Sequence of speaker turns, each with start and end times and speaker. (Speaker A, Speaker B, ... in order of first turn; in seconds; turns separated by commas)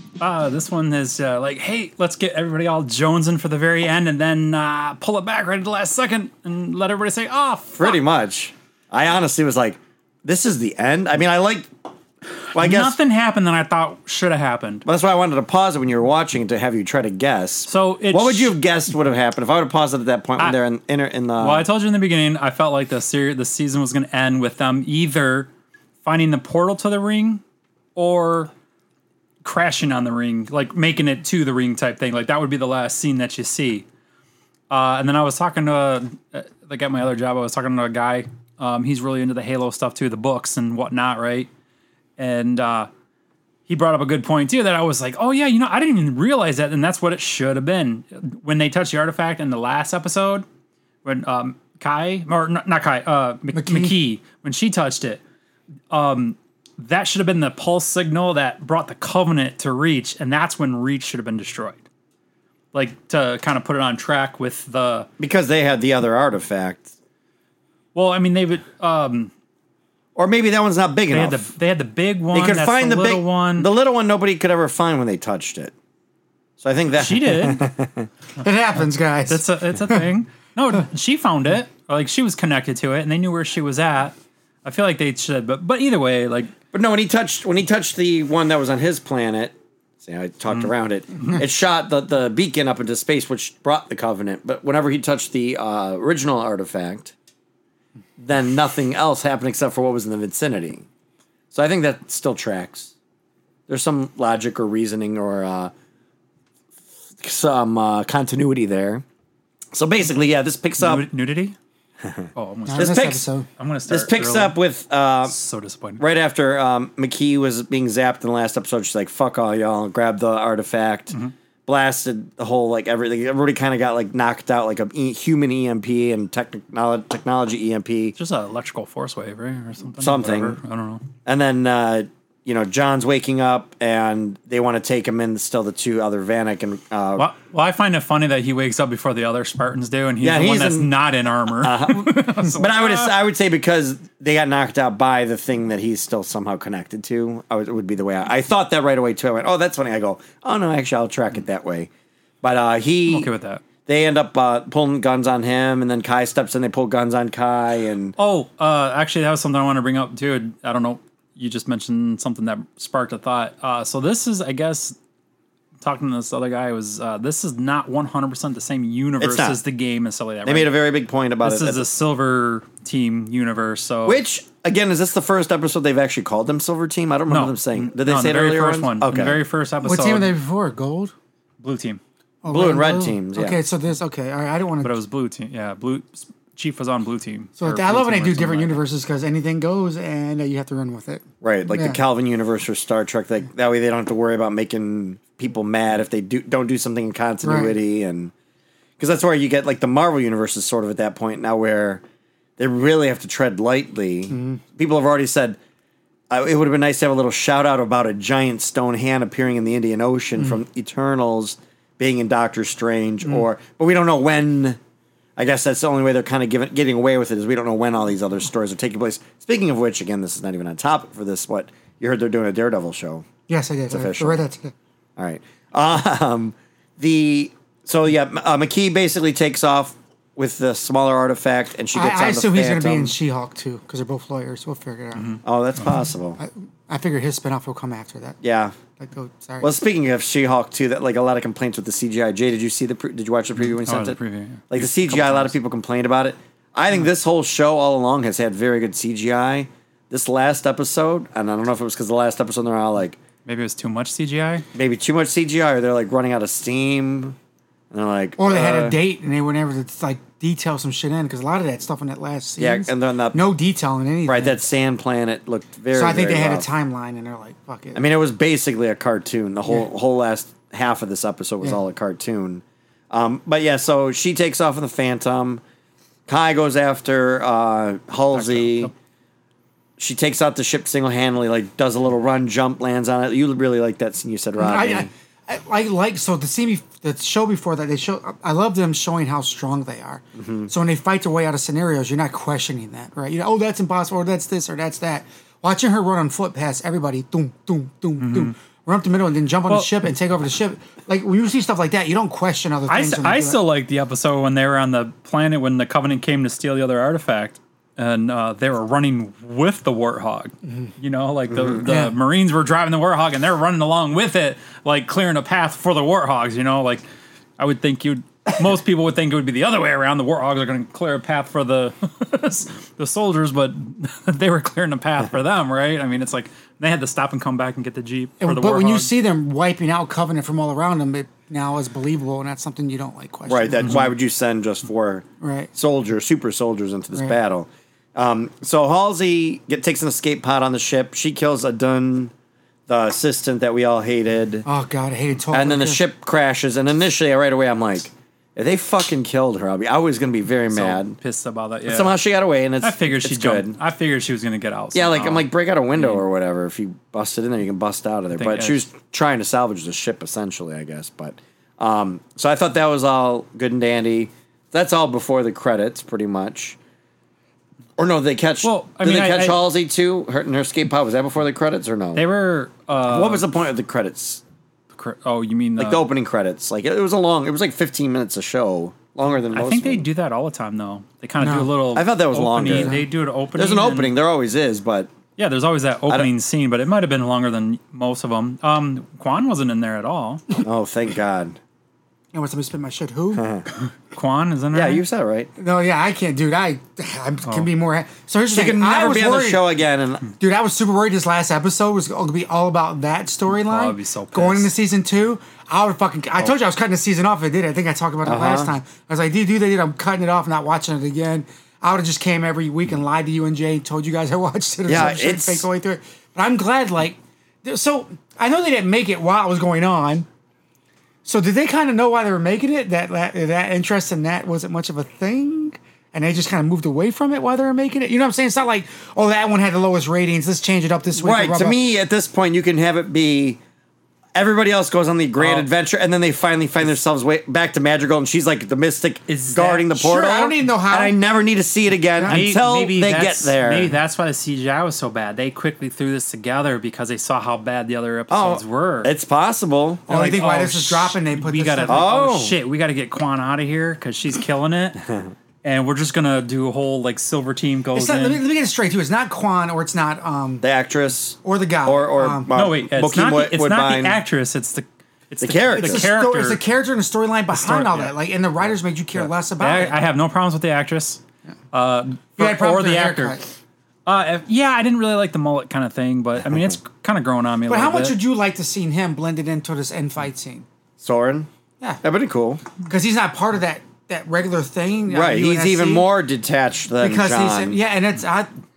Speaker A: 0.2-8.0, Speaker B: 7.8-11.7, Speaker B: 12.5-13.0, Speaker A: 12.5-14.8, Speaker B: 14.9-21.7, Speaker A: 17.7-18.6, Speaker A: 21.4-25.5, Speaker A: 26.0-27.4, Speaker A: 28.0-28.5, Speaker A: 29.4-33.9, Speaker A: 34.7-41.5, Speaker A: 42.2-42.9, Speaker A: 43.7-50.5, Speaker A: 51.0-55.2, Speaker C: 53.5-54.0, Speaker A: 55.9-61.9, Speaker A: 62.7-65.1, Speaker B: 65.2-66.9, Speaker A: 67.9-69.3, Speaker B: 70.2-71.5, Speaker A: 71.1-73.7, Speaker B: 72.3-75.7, Speaker B: 76.6-78.1, Speaker A: 77.0-77.7, Speaker C: 78.4-80.0, Speaker A: 79.3-86.5, Speaker B: 86.7-97.2, Speaker A: 90.5-91.4, Speaker B: 98.2-100.9, Speaker B: 101.5-102.9, Speaker B: 103.7-105.7, Speaker B: 107.2-109.0, Speaker B: 109.7-111.1, Speaker A: 110.8-111.6, Speaker B: 112.0-113.2, Speaker A: 112.4-114.5, Speaker C: 112.7-113.5, Speaker B: 113.9-115.3, Speaker A: 115.3-116.0, Speaker B: 116.0-128.2, Speaker A: 128.2-131.0, Speaker B: 130.0-130.6, Speaker B: 131.2-137.3, Speaker A: 137.2-143.2, Speaker B: 140.2-140.9, Speaker B: 141.6-151.9, Speaker B: 152.4-153.3, Speaker A: 153.1-153.7, Speaker B: 153.9-158.1, Speaker A: 158.2-165.0, Speaker A: 165.8-170.7, Speaker B: 169.2-169.6, Speaker B: 170.5-171.9, Speaker A: 171.4-174.2, Speaker B: 174.1-179.4, Speaker A: 177.3-180.3, Speaker C: 179.8-181.1, Speaker A: 181.6-182.0, Speaker C: 182.4-184.9, Speaker B: 182.5-183.6, Speaker A: 184.8-188.8, Speaker C: 187.6-192.0, Speaker B: 191.4-198.3, Speaker C: 197.4-197.8, Speaker B: 199.0-202.0, Speaker B: 202.6-205.6, Speaker C: 204.3-204.6, Speaker B: 206.3-214.8, Speaker B: 215.4-223.3, Speaker C: 223.5-224.7, Speaker B: 223.9-224.4, Speaker B: 225.2-233.2, Speaker C: 231.9-235.4, Speaker B: 235.4-236.4, Speaker C: 236.4-238.4, Speaker B: 238.4-238.8, Speaker C: 239.0-239.7, Speaker B: 239.6-244.2, Speaker A: 243.6-245.5, Speaker B: 244.7-253.2, Speaker A: 253.5-254.7, Speaker B: 254.7-257.4, Speaker B: 257.9-259.0, Speaker C: 258.4-264.6, Speaker B: 262.6-263.4, Speaker B: 264.3-266.7, Speaker C: 265.9-268.0, Speaker B: 267.9-275.6, Speaker B: 276.3-278.9, Speaker A: 278.3-278.9, Speaker B: 280.0-285.1, Speaker C: 284.6-303.6, Speaker B: 290.4-290.7, Speaker A: 298.2-298.5, Speaker A: 302.9-317.0, Speaker C: 311.9-312.1, Speaker A: 317.6-329.1, Speaker C: 328.4-334.1, Speaker B: 333.5-342.3, Speaker C: 335.4-335.7, Speaker B: 342.9-344.6, Speaker C: 344.6-346.0, Speaker B: 345.5-351.2, Speaker A: 350.7-352.1, Speaker B: 351.9-353.8, Speaker A: 352.8-355.5, Speaker B: 354.9-366.8, Speaker A: 358.3-358.8, Speaker B: 368.0-372.2, Speaker A: 368.6-369.6, Speaker A: 372.1-373.4, Speaker B: 373.1-374.4, Speaker A: 374.9-376.0, Speaker B: 375.8-380.1, Speaker A: 379.5-384.1, Speaker C: 381.4-381.7, Speaker B: 381.9-383.0, Speaker C: 382.7-383.1, Speaker B: 383.5-385.1, Speaker A: 385.4-390.4, Speaker B: 390.6-391.6, Speaker C: 392.3-393.5, Speaker B: 393.4-393.6, Speaker A: 394.1-395.0, Speaker B: 394.7-395.5, Speaker C: 395.6-399.6, Speaker B: 398.5-400.3, Speaker C: 400.4-420.3, Speaker A: 403.6-404.7, Speaker B: 408.2-408.7, Speaker B: 414.9-415.7, Speaker C: 421.2-431.8, Speaker B: 431.2-433.6, Speaker B: 434.4-443.9, Speaker A: 435.4-435.7, Speaker A: 439.3-439.9, Speaker C: 439.9-441.2, Speaker C: 442.2-442.4, Speaker A: 442.3-449.1, Speaker B: 448.3-450.1, Speaker C: 450.1-452.1, Speaker A: 450.1-455.0, Speaker B: 451.9-452.6, Speaker A: 455.6-458.4, Speaker C: 457.9-460.6, Speaker B: 460.6-464.2, Speaker C: 461.4-462.5, Speaker A: 462.5-466.6, Speaker B: 465.4-466.1, Speaker C: 465.8-470.0, Speaker A: 467.5-468.1, Speaker A: 469.2-471.2, Speaker A: 471.7-473.4, Speaker C: 472.4-473.4, Speaker A: 474.1-478.1, Speaker C: 477.7-480.7, Speaker B: 481.0-481.5, Speaker B: 482.0-482.6, Speaker C: 482.8-486.1, Speaker B: 485.1-487.8, Speaker C: 487.0-488.5